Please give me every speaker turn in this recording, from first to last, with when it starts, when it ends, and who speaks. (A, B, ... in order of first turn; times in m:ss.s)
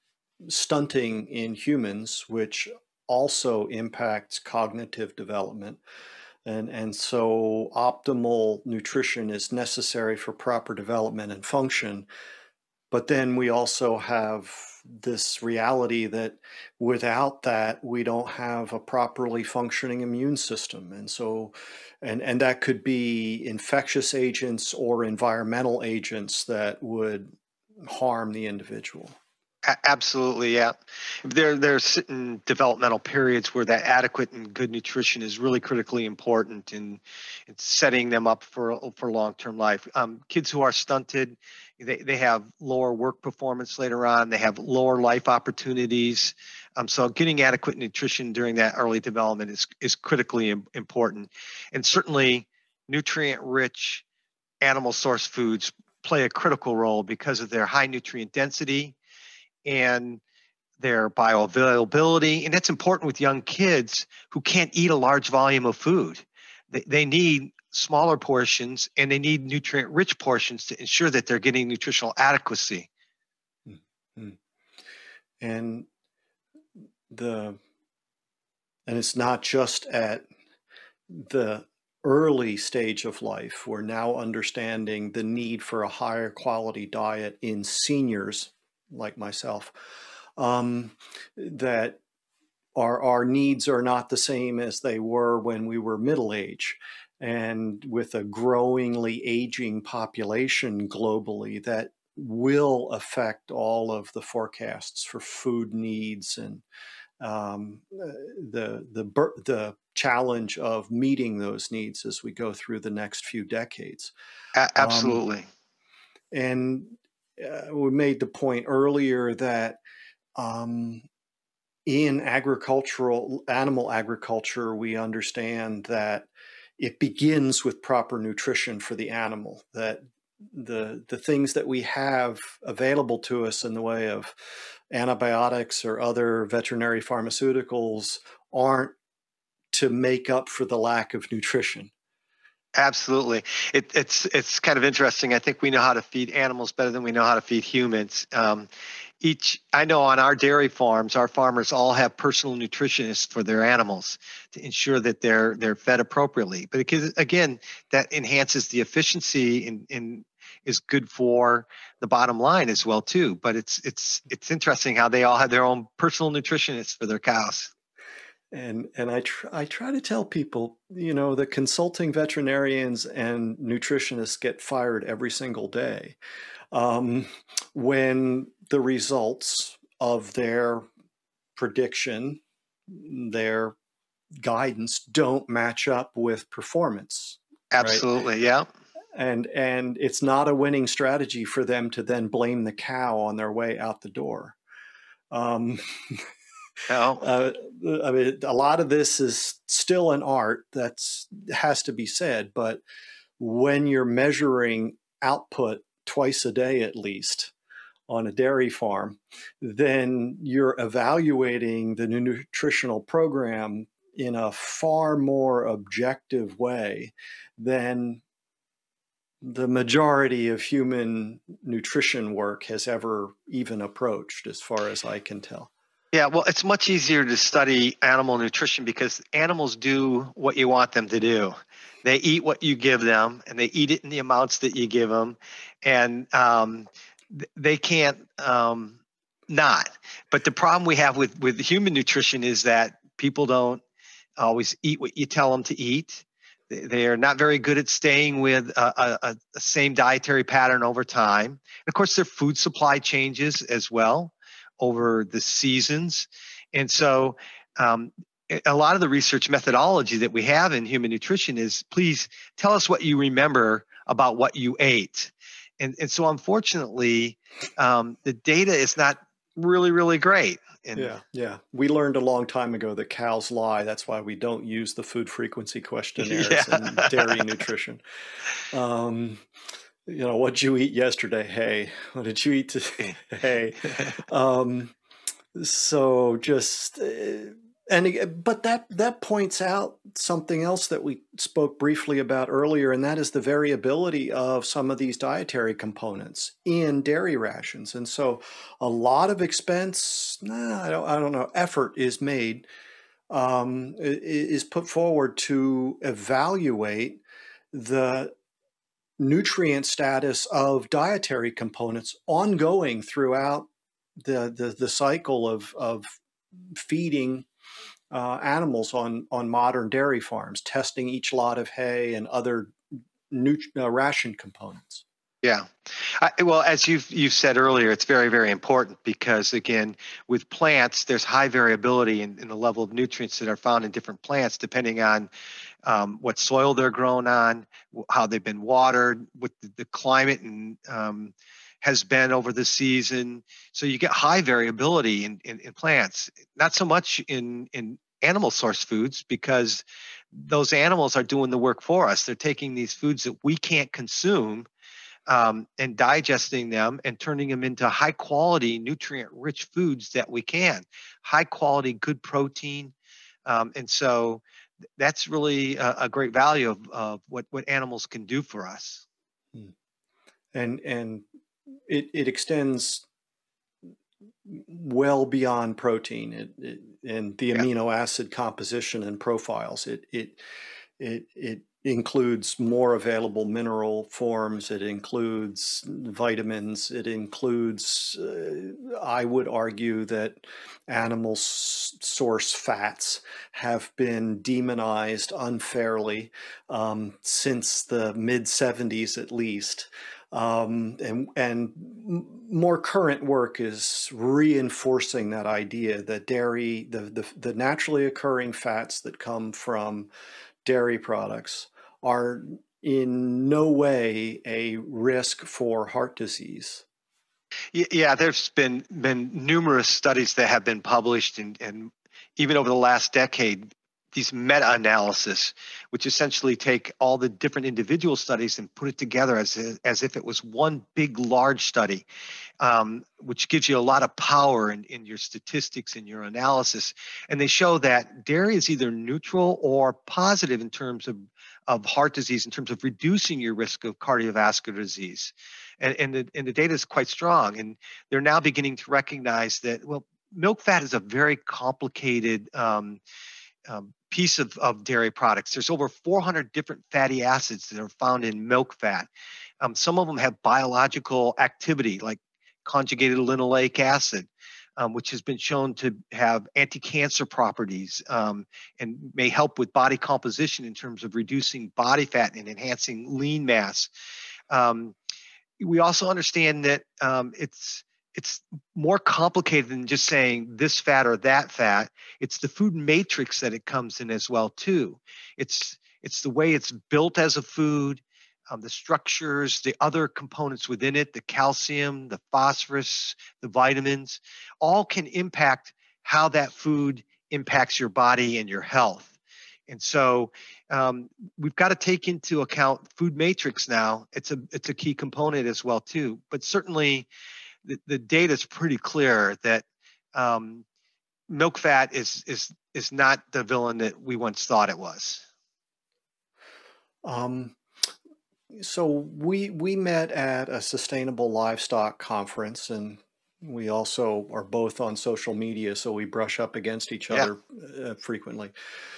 0:00.5-0:05.8 A
0:06.4-0:12.1 A
0:12.9-0:27.3 A
0:27.8-0:29.2 A
0:29.6-0:54.0 B
0:54.6-0:59.0 B
0:59.6-1:00.2 B
1:00.8-1:12.9 B
1:13.7-1:14.4 A
1:15.4-1:15.9 A
1:17.1-1:17.6 A
1:18.9-1:20.3 A
1:21.1-1:29.7 A
1:30.4-1:32.0 A
1:32.8-1:46.6 A
1:47.2-1:54.1 A
1:54.5-1:55.5 B
1:54.8-1:55.2 A
1:56.3-1:59.8 A
2:00.4-2:01.0 A
2:01.8-2:14.3 A
2:14.9-2:19.0 A
2:19.7-2:21.9 A
2:22.8-2:28.7 B
2:29.2-2:47.7 B
2:48.5-2:56.2 A
2:56.7-3:00.8 A
3:01.6-3:03.8 A
3:04.4-3:08.0 A
3:07.7-3:08.6 B
3:09.1-3:14.6 A
3:15.3-3:16.2 A
3:16.9-3:17.2 B
3:17.2-3:22.8 A
3:23.4-3:27.5 A
3:28.1-3:38.2 A
3:39.4-3:45.7 A
3:46.1-4:03.8 B
4:04.4-4:31.1 B
4:30.9-4:38.0 A
4:36.2-4:37.4 B
4:38.7-4:39.4 A
4:40.1-4:44.9 A
4:45.5-5:02.6 A
5:03.3-5:07.2 A
5:07.7-5:08.3 A
5:09.2-5:13.7 A
5:14.2-5:16.2 A
5:16.7-5:17.4 A
5:18.1-5:22.8 A
5:23.3-5:25.0 A
5:25.4-5:35.3 B
5:35.8-5:54.7 B
5:55.3-6:02.9 B
6:03.4-6:04.4 B
6:05.0-6:09.0 B
6:10.5-6:11.2 A
6:11.9-6:13.0 A
6:14.4-6:20.4 A
6:21.0-6:50.1 A
6:50.6-6:56.8 A
6:57.7-7:12.1 B
7:12.6-7:33.0 B
7:33.6-7:39.1 B
7:39.6-7:53.9 B
7:54.5-7:55.0 B
7:55.6-8:19.1 B
8:19.7-8:27.1 B
8:27.6-8:30.6 B
8:31.3-8:35.2 B
8:37.0-8:37.6 A
8:38.5-8:48.5 A